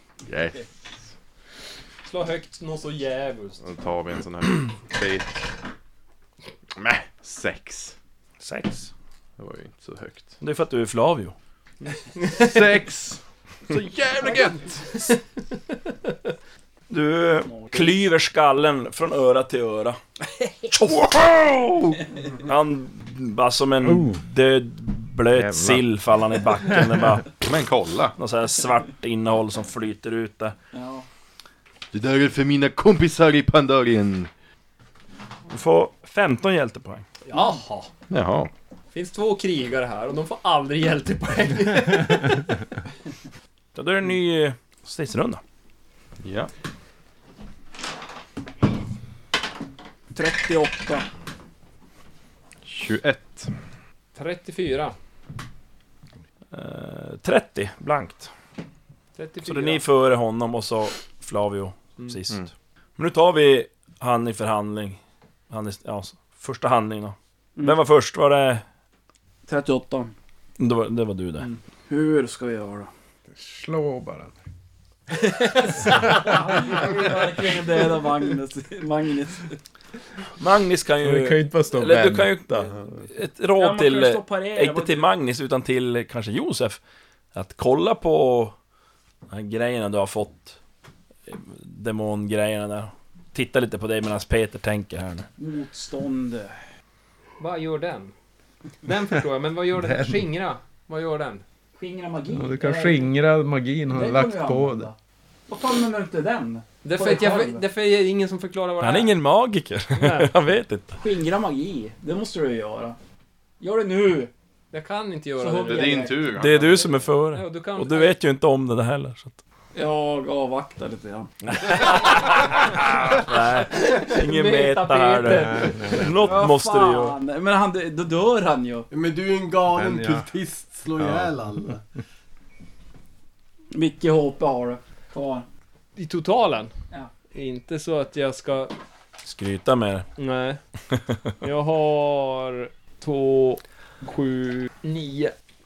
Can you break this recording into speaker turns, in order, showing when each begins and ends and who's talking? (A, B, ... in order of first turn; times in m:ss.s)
0:00.3-0:00.6 A
0:02.0-0:03.6 B
0:03.6-0:05.4 A
0:06.8-0:08.0 A
0:08.4-0:08.9 C
0:09.4-0:10.4 A
0:10.4-0:11.4 C
0:12.2-0:12.6 B
0:12.3-0:15.1 A
0:16.9-0:20.0 C
0:17.5-0:17.9 D
0:20.7-0:27.4 C
0:23.8-0:24.2 E
0:25.3-0:25.9 E
0:27.4-0:28.2 A
0:28.2-0:30.6 C
0:30.7-0:31.1 D
0:31.9-0:34.3 A
0:35.5-0:37.0 C
0:37.2-0:37.9 B
0:38.1-0:38.5 A
0:38.9-0:42.4 B
0:43.8-0:45.4 C
0:46.2-0:46.5 A
0:50.1-0:51.1 D
0:52.7-0:53.5 A
0:54.2-0:54.9 B
0:56.5-0:58.3 C
0:59.2-0:59.8 B
0:59.4-1:08.6 C
1:09.5-1:10.1 D
1:10.6-1:11.5 C
1:11.4-1:12.9 D
1:13.3-1:14.4 E
1:15.4-1:16.3 B
1:16.0-1:19.6 D
1:20.4-1:26.8 C
1:21.0-1:22.8 E
1:23.6-1:25.1 D
1:27.3-1:28.6 C
1:29.3-1:30.6 C
1:31.3-1:35.3 C
1:35.4-1:36.6 D
1:37.4-1:38.1 B
1:38.8-1:41.4 B
1:39.8-1:40.2 E
1:41.8-1:43.1 D
1:42.3-1:44.9 E
1:43.9-1:45.0 D
1:45.5-1:47.6 D
1:46.8-1:49.2 B
1:48.8-1:51.0 C
1:50.0-1:50.3 B
1:51.0-1:53.0 D
1:53.6-1:54.3 D
1:54.7-1:56.1 B
1:55.4-1:56.2 D
1:55.6-1:56.9 A
1:56.4-1:59.4 C
1:57.3-1:58.2 B
1:59.7-2:01.4 D
2:01.5-2:07.2 C
2:03.6-2:05.9 B
2:05.5-2:06.3 E
2:06.2-2:08.9 D
2:08.9-2:11.8 F
2:09.7-2:10.3 E
2:11.0-2:11.3 E
2:13.7-2:15.5 D
2:16.0-2:16.7 B
2:17.3-2:18.8 B
2:19.2-2:20.1 C
2:20.2-2:20.6 B
2:21.4-2:25.3 B